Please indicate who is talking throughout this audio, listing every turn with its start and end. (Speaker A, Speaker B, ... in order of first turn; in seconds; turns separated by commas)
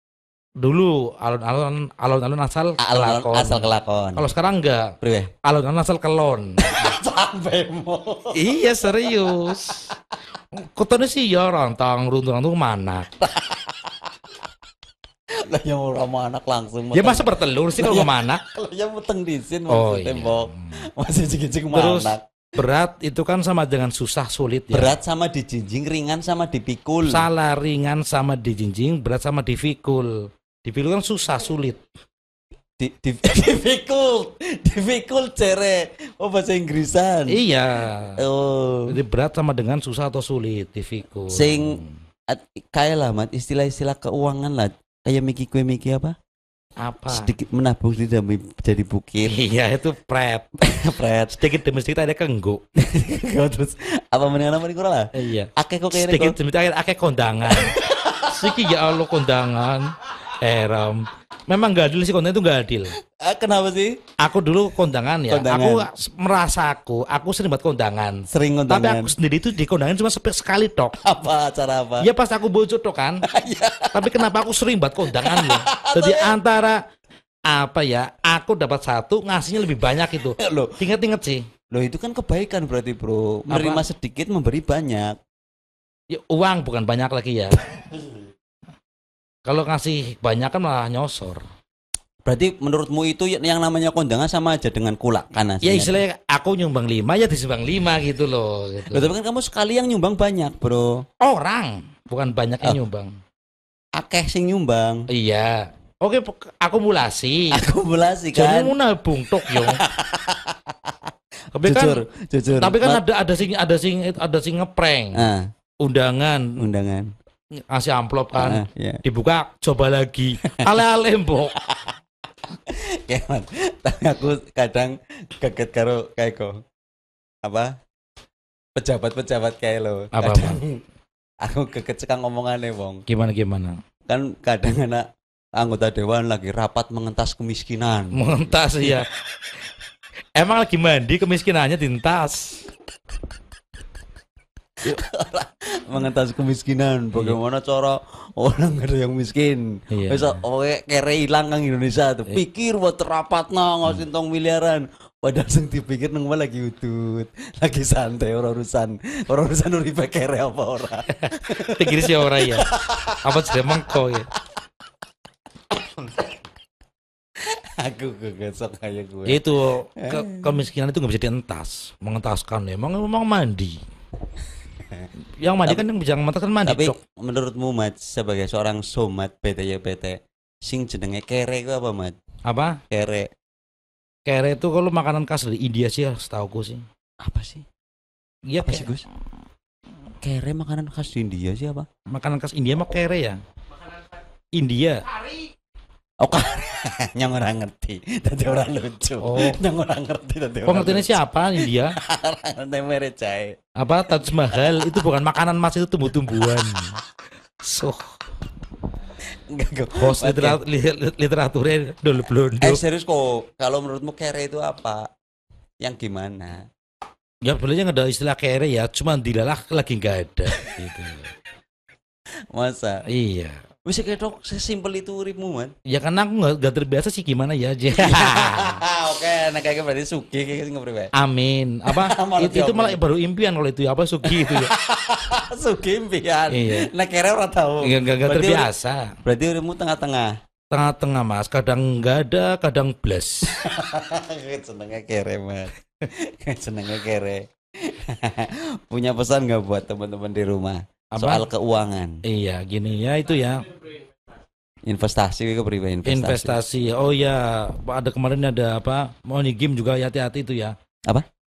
Speaker A: 0.6-6.6, Speaker B: 2.8-4.3, Speaker B: 5.0-5.3, Speaker B: 6.6-8.4, Speaker A: 8.3-9.9, Speaker A: 10.5-13.1, Speaker B: 13.2-13.9, Speaker B: 15.4-22.2, Speaker A: 16.9-18.4, Speaker A: 19.7-20.7, Speaker A: 21.7-24.9, Speaker B: 24.7-27.2, Speaker A: 27.1-30.1, Speaker A: 30.6-31.8, Speaker B: 32.8-37.4, Speaker A: 37.3-38.2, Speaker B: 38.2-39.0, Speaker A: 38.9-42.0, Speaker B: 41.3-46.1, Speaker A: 46.8-47.3, Speaker B: 47.1-49.4, Speaker A: 49.3-50.5, Speaker B: 50.6-51.4, Speaker A: 51.4-52.6, Speaker B: 52.8-56.4, Speaker A: 55.1-63.0, Speaker B: 57.5-58.9, Speaker B: 63.1-64.0, Speaker A: 64.2-71.0, Speaker B: 65.3-65.9, Speaker B: 68.3-69.1, Speaker B: 71.0-72.1, Speaker A: 72.0-73.2, Speaker B: 73.3-74.2, Speaker A: 73.9-76.8, Speaker B: 75.1-76.4, Speaker A: 77.5-81.4, Speaker B: 80.4-80.8, Speaker B: 81.7-85.2, Speaker A: 83.5-83.8, Speaker A: 86.1-87.6, Speaker A: 89.5-91.4, Speaker B: 92.2-96.0, Speaker A: 95.6-99.1, Speaker B: 98.9-101.0, Speaker A: 101.2-103.1, Speaker B: 104.0-105.0, Speaker A: 105.1-107.6, Speaker B: 107.5-108.8, Speaker A: 108.3-109.8, Speaker B: 109.5-110.9, Speaker A: 111.5-112.0, Speaker B: 111.6-113.0, Speaker A: 112.6-115.3, Speaker B: 115.1-115.5, Speaker A: 115.8-116.5, Speaker B: 116.6-117.1, Speaker A: 117.7-121.5, Speaker B: 118.3-119.0, Speaker B: 121.6-122.0, Speaker B: 122.7-126.6, Speaker B: 127.5-127.7, Speaker B: 128.8-130.8, Speaker A: 130.1-130.6, Speaker B: 131.4-133.0, Speaker A: 133.1-133.8, Speaker B: 134.1-135.0, Speaker B: 135.6-138.2, Speaker A: 138.1-139.2, Speaker A: 140.4-142.6, Speaker B: 144.9-163.7, Speaker A: 147.1-147.4, Speaker A: 149.9-150.4, Speaker A: 161.3-162.7, Speaker A: 163.2-164.3, Speaker B: 166.0-166.2, Speaker B: 167.8-169.4, Speaker A: 169.3-173.8, Speaker B: 170.0-170.6, Speaker A: 175.4-176.9, Speaker B: 176.7-182.2, Speaker A: 182.5-182.8, Speaker B: 182.9-183.3, Speaker A: 184.3-186.8, Speaker B: 187.2-187.7, Speaker A: 188.5-188.9, Speaker B: 188.6-189.1, Speaker B: 190.2-191.9, Speaker A: 192.1-193.4, Speaker A: 194.6-195.0, Speaker B: 196.2-203.6, Speaker A: 199.2-199.6, Speaker A: 200.7-201.9, Speaker A: 203.8-206.9, Speaker B: 204.6-204.9, Speaker A: 207.7-208.1, Speaker B: 209.5-210.6, Speaker A: 210.0-212.8, Speaker B: 212.6-215.1, Speaker B: 215.8-216.7, Speaker A: 217.5-221.3, Speaker B: 222.5-223.0, Speaker A: 223.1-223.6, Speaker B: 223.9-225.7, Speaker A: 225.9-228.8, Speaker B: 228.0-231.1, Speaker A: 231.2-234.7, Speaker B: 231.9-233.0, Speaker B: 234.2-238.7, Speaker A: 236.5-236.9, Speaker A: 237.8-239.1, Speaker B: 239.2-240.3, Speaker A: 240.7-243.5, Speaker B: 243.6-252.2, Speaker A: 251.2-251.5, Speaker A: 252.3-253.7, Speaker B: 254.9-256.6, Speaker A: 256.1-260.8